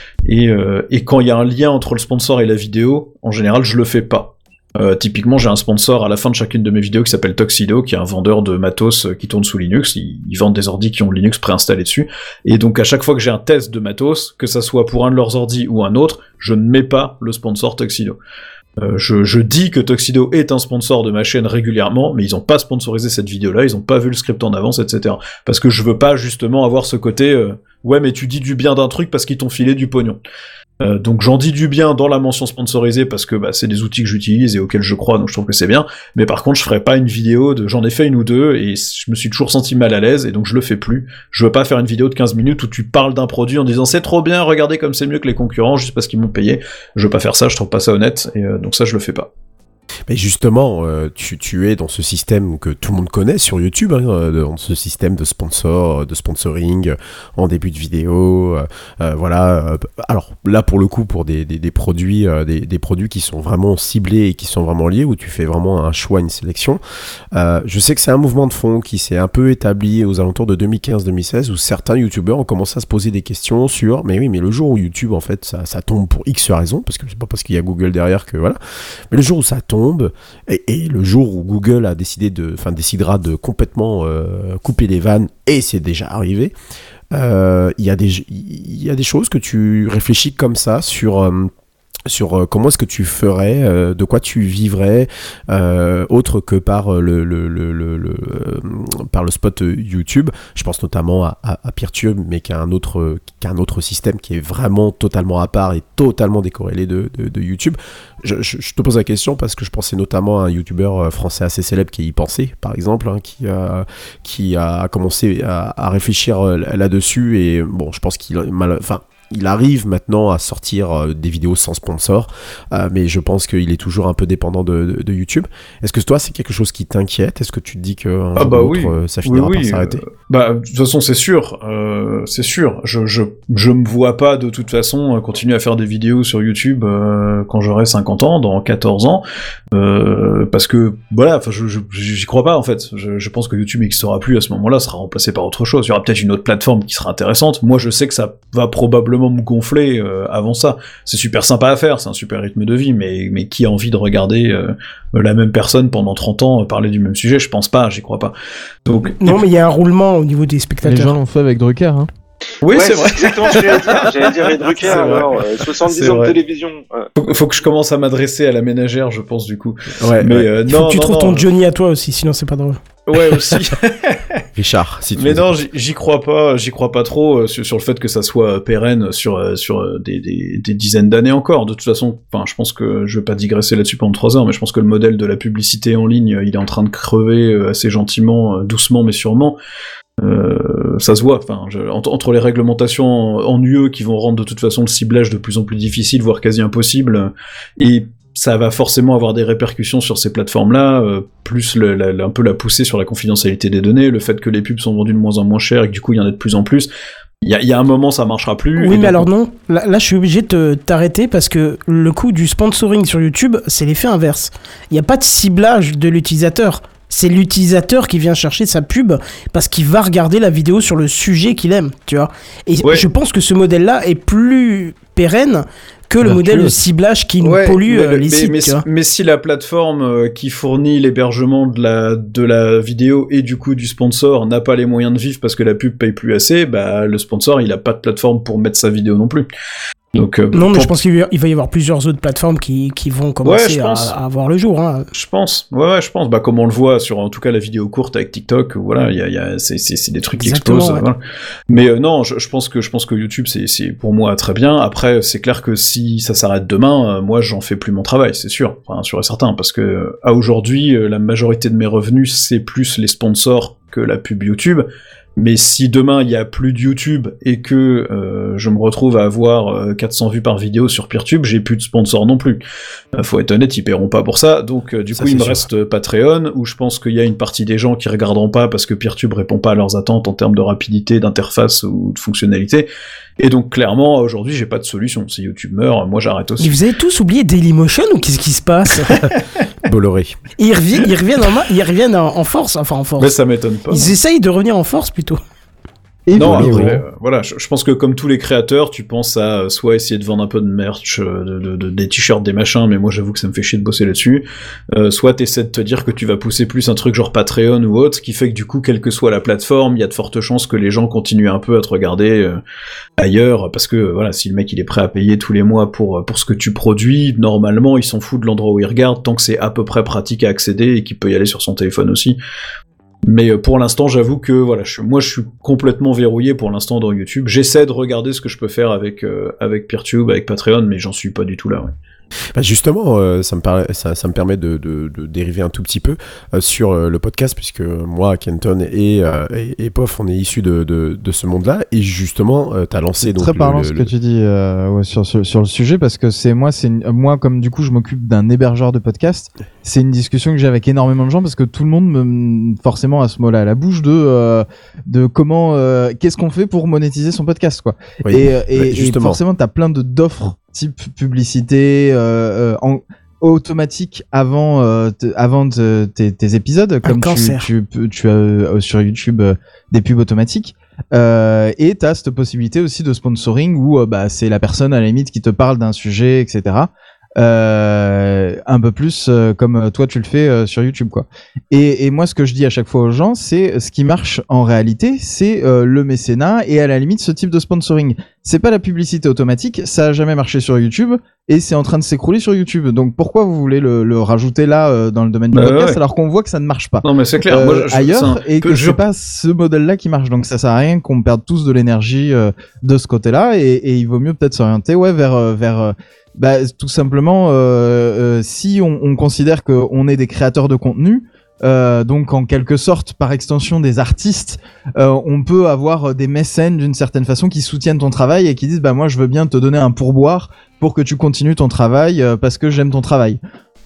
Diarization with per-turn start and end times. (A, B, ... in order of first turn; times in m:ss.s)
0:00.2-0:18.2 A
0:18.8-0:30.2 A
0:30.8-0:49.3 A
0:50.1-1:06.8 B
1:07.3-1:18.6 B
1:19.1-1:26.5 B
1:27.1-1:31.5 B
1:32.1-2:10.0 B
2:08.4-2:19.2 A
2:19.7-2:38.3 A
2:38.8-2:39.4 A
2:39.2-2:41.1 C
2:40.8-2:42.1 D
2:42.6-2:46.4 A
2:42.7-2:47.1 E
2:44.9-2:45.2 B
2:47.2-2:51.5 A
2:50.0-2:50.5 B
2:50.7-2:52.8 C
2:53.1-2:54.4 A
2:54.6-2:55.6 B
2:55.2-3:09.6 A
3:10.2-3:26.9 A
3:27.4-3:29.3 A
3:28.8-3:48.8 C
3:46.3-3:46.7 B
3:47.4-3:59.5 A
4:00.1-4:00.9 A
4:00.5-4:05.1 C
4:03.4-4:04.1 A
4:05.1-4:11.2 A
4:10.4-4:11.0 C
4:11.7-4:32.6 A
4:33.1-4:42.9 A
4:35.1-4:35.7 B
4:43.4-4:46.8 A
4:46.6-4:49.2 C
4:49.8-4:50.4 B
4:50.6-4:53.3 C
4:53.2-4:54.2 A
4:53.9-4:55.4 C
4:56.2-4:57.0 D
4:56.3-4:57.0 B
4:56.3-5:12.6 A
5:13.2-5:22.4 A
5:23.2-5:31.9 A
5:32.5-5:44.1 B
5:43.2-7:03.4 D
5:58.2-5:59.4 B
6:07.0-6:07.7 C
6:35.5-6:36.0 A
6:37.0-6:39.0 A